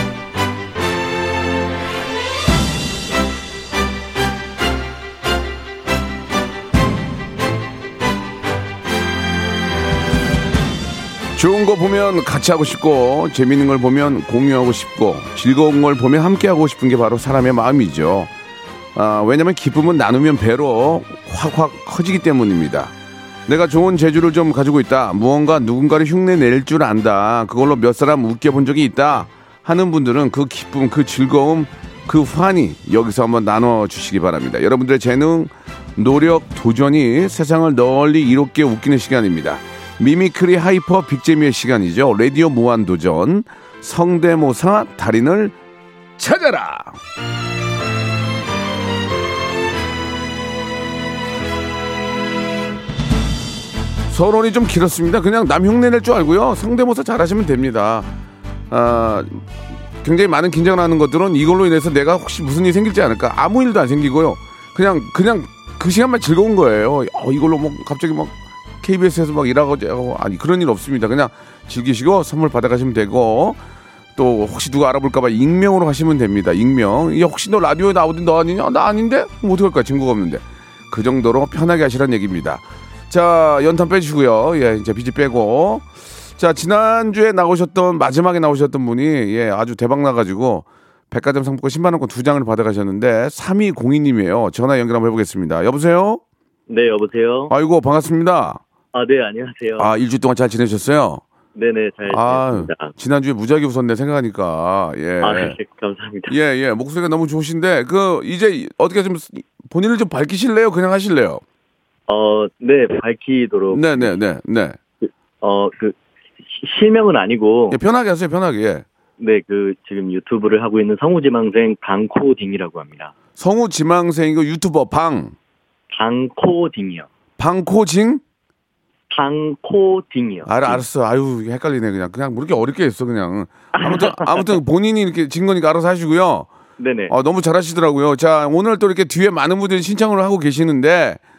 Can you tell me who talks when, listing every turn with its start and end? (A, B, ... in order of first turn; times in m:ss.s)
0:11.3-0:18.3 A
0:18.9-0:22.9 A
0:23.5-0:45.5 A
0:46.2-0:47.0 A
0:54.1-0:58.1 A
0:58.7-0:59.4 A
1:00.0-1:13.6 A
1:14.2-1:36.2 A
1:36.7-1:37.5 B
1:37.5-1:38.6 A
1:38.9-1:39.9 B
1:39.8-1:41.2 A
1:41.5-1:42.9 B
1:42.1-1:45.6 A
1:45.2-1:46.3 B
1:46.3-1:51.4 A
1:52.1-1:54.1 B
1:53.7-1:54.8 A
1:55.0-1:57.8 B
1:57.7-1:58.8 A
1:59.2-2:03.1 B
2:03.4-2:05.3 A
2:05.9-2:07.1 B
2:07.4-2:08.2 A
2:09.1-2:10.8 B
2:10.4-2:16.5 A
2:13.8-2:14.5 B
2:16.8-2:17.1 B
2:17.1-2:21.2 A